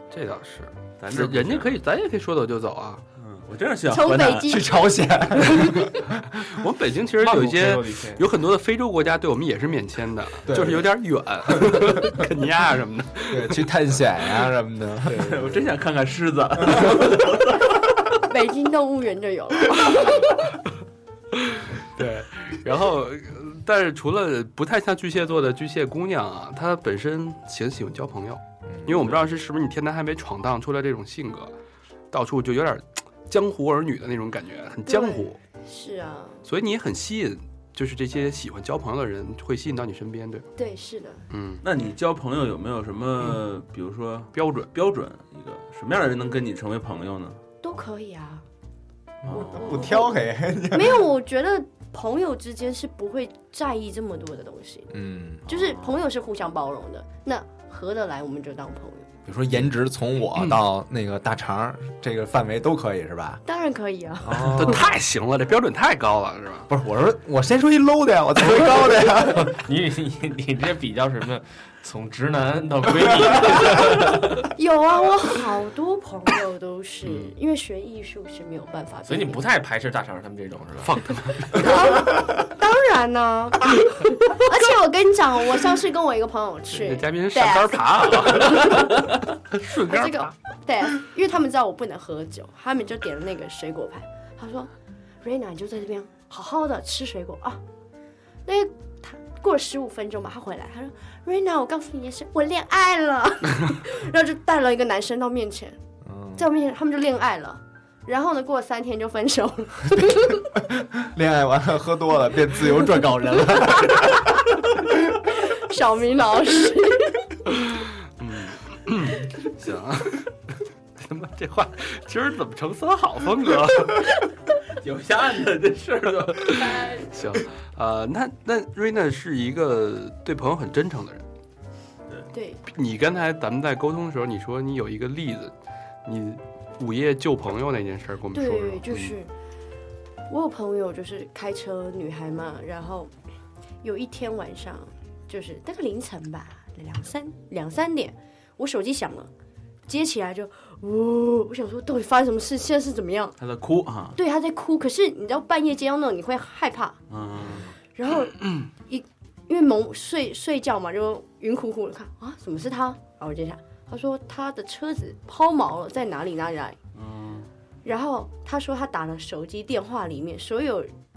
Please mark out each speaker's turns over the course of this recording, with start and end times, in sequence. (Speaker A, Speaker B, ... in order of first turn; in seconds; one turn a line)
Speaker A: 0.1-3.0
Speaker B: 1.0-1.8
Speaker B: 3.1-4.6
Speaker C: 3.9-4.7
Speaker D: 4.4-6.2
Speaker A: 6.3-13.6
Speaker E: 7.2-8.2
Speaker D: 10.5-10.9
Speaker D: 13.3-15.4
Speaker B: 15.1-17.6
Speaker C: 18.3-20.4
Speaker A: 21.5-31.5
Speaker D: 28.7-29.1
Speaker A: 32.1-35.4
Speaker C: 34.9-36.4
Speaker A: 36.5-40.5
Speaker C: 40.6-41.2
Speaker A: 41.3-41.6
Speaker B: 41.6-47.4
Speaker A: 44.3-44.7
Speaker C: 47.6-48.4
Speaker B: 49.2-49.8
Speaker D: 49.2-51.0
Speaker C: 49.3-50.2
Speaker C: 50.7-54.9
Speaker D: 54.9-55.4
Speaker C: 55.5-59.1
Speaker B: 55.5-56.0
Speaker D: 59.2-63.4
Speaker C: 63.5-64.8
Speaker D: 64.2-64.8
Speaker A: 64.5-66.7
Speaker D: 66.7-69.5
Speaker E: 69.2-74.4
Speaker C: 74.5-79.4
Speaker A: 77.0-77.3
Speaker E: 79.1-81.0
Speaker A: 80.8-81.8
Speaker C: 81.5-88.8
Speaker A: 86.7-90.3
Speaker C: 89.8-94.7
Speaker C: 95.2-97.6
Speaker C: 98.5-105.8
Speaker D: 106.0-106.4
Speaker C: 106.3-110.4
Speaker D: 110.5-114.4
Speaker C: 113.9-114.2
Speaker C: 115.3-117.3
Speaker A: 118.2-124.1
Speaker B: 124.7-126.6
Speaker A: 126.4-131.2
Speaker C: 126.6-127.1
Speaker C: 132.3-132.6
Speaker A: 132.7-135.5
Speaker A: 136.0-139.1
Speaker C: 138.3-139.3
Speaker C: 140.3-143.1
Speaker C: 143.8-149.3
Speaker C: 149.9-153.3
Speaker B: 153.4-154.2
Speaker C: 154.2-157.0
Speaker B: 157.1-157.7
Speaker C: 157.9-166.8
Speaker B: 166.9-167.5
Speaker C: 167.8-170.9